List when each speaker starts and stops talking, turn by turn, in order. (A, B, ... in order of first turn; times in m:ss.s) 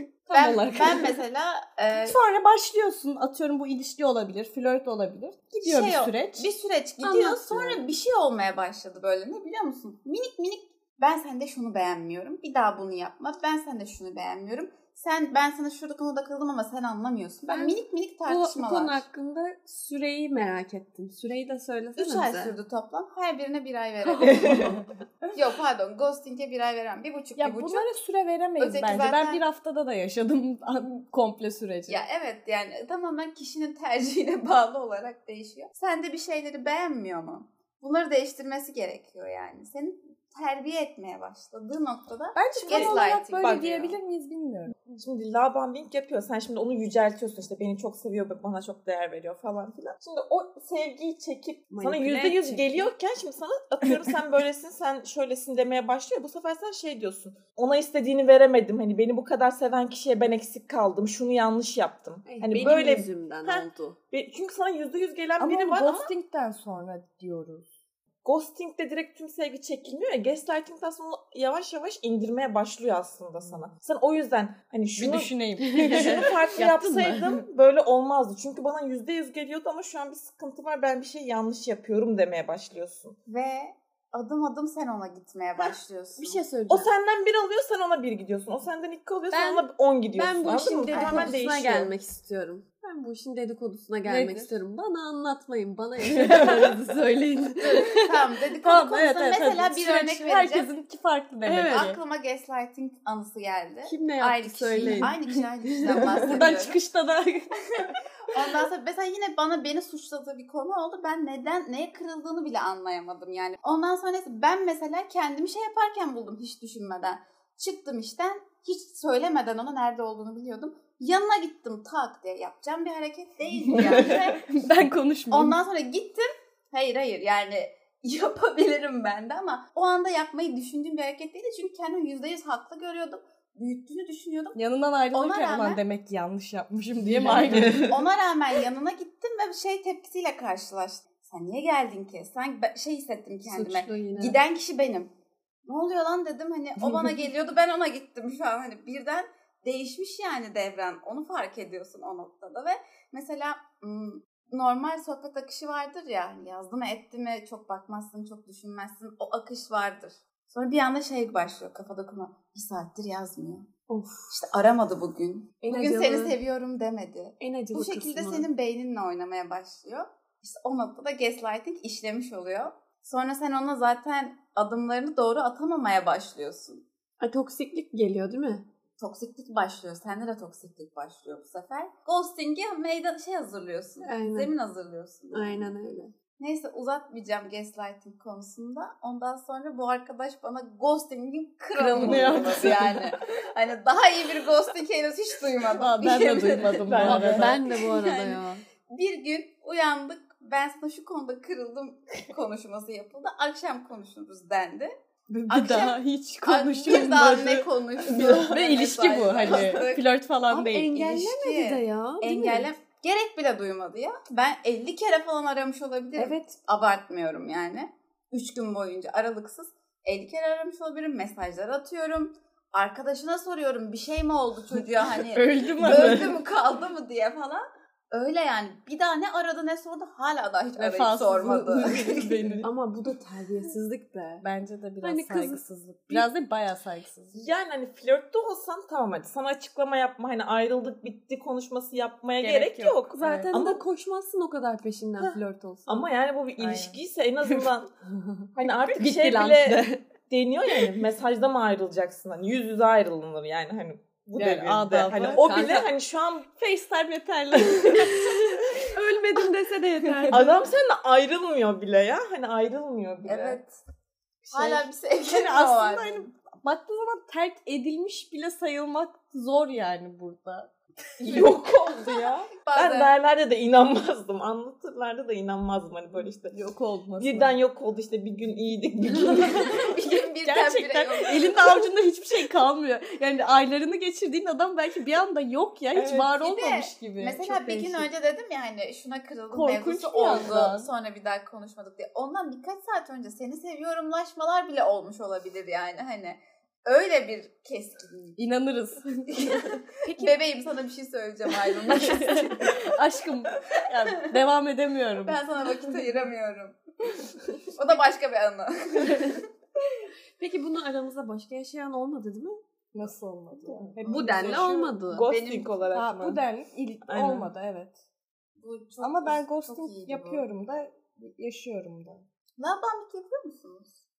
0:00.3-0:01.1 A
0:00.3-0:02.2 B
0:02.0-0:06.5 C
0:05.6-0:19.0 B
0:07.0-0:07.8 A
0:17.5-0:22.6 A
0:22.0-0:27.9 B
0:24.0-0:24.9 C
0:24.3-0:24.7 D
0:27.4-0:32.0 C
0:28.6-0:29.4 B
0:31.9-0:43.6 B
0:42.4-0:44.7 C
0:42.6-0:44.0 D
0:44.8-1:06.1 D
0:51.7-0:52.9 A
1:02.3-1:04.0 A
1:05.4-1:07.7 C
1:08.2-1:23.2 D
1:15.0-1:16.3 C
1:15.7-1:17.4 A
1:23.3-1:26.4 B
1:26.2-1:26.9 A
1:26.7-1:31.9 D
1:29.3-1:38.2 A
1:30.9-1:31.4 B
1:34.1-1:34.5 C
1:36.1-1:36.4 C
1:37.6-1:40.7 B
1:38.6-1:42.0 C
1:41.4-1:41.9 A
1:41.7-1:46.8 B
1:43.9-1:45.2 A
1:44.8-1:45.1 C
1:46.2-1:47.9 C
1:48.3-2:04.5 B
2:03.9-2:04.2 D
2:04.3-2:05.6 C
2:05.3-2:14.6 B
2:14.6-2:17.9 C
2:15.1-2:15.8 B
2:17.3-2:17.9 D
2:17.8-2:25.1 B
2:23.4-2:24.4 A
2:25.7-2:43.7 B
2:43.9-2:44.3 A
2:44.3-2:56.8 B
2:45.6-2:46.4 A
2:47.4-2:48.5 A
2:57.2-2:58.6 A
2:59.0-3:05.7 B
3:04.0-3:04.5 A
3:05.3-3:06.1 A
3:06.4-3:24.9 B
3:11.8-3:13.0 C
3:15.7-3:17.5 C
3:16.9-3:17.6 D
3:17.0-3:18.6 A
3:25.3-3:30.9 C
3:25.5-3:30.0 B
3:30.5-3:32.7 A
3:30.9-3:52.6 B
3:36.2-3:36.5 A
3:45.3-3:46.4 C
3:45.8-3:46.3 D
3:50.8-3:52.7 C
3:52.6-3:54.4 A
3:54.4-3:57.5 C
3:55.0-3:56.3 A
3:57.3-4:03.8 D
4:02.4-4:03.5 C
4:03.2-4:06.1 A
4:05.9-4:07.9 D
4:06.6-4:07.0 C
4:08.5-4:16.5 D
4:08.8-4:10.0 A
4:14.4-4:15.5 C
4:15.1-4:15.9 A
4:16.5-4:18.8 C
4:18.7-4:20.7 A
4:20.0-4:20.6 C
4:20.3-4:23.6 D
4:23.3-4:23.8 B
4:24.5-4:26.3 B
4:24.6-4:30.7 C
4:31.2-4:36.6 D
4:32.6-4:33.1 B
4:36.5-4:37.6 C
4:37.2-4:39.8 D
4:39.5-4:48.1 C
4:39.7-4:41.9 B
4:45.9-4:46.3 D
4:46.3-4:58.4 B
4:49.5-4:50.9 C
4:58.4-5:00.3 C
4:59.3-5:02.9 B
5:01.8-5:05.4 C
5:05.2-5:06.8 B
5:07.7-5:09.5 B
5:10.4-5:12.6 A
5:12.9-5:15.0 C
5:13.7-5:16.4 D
5:14.1-5:15.3 A
5:15.3-5:16.0 B
5:15.9-5:18.0 C
5:17.1-5:17.5 D
5:18.6-5:20.5 B
5:19.0-5:22.2 C
5:22.6-5:24.0 B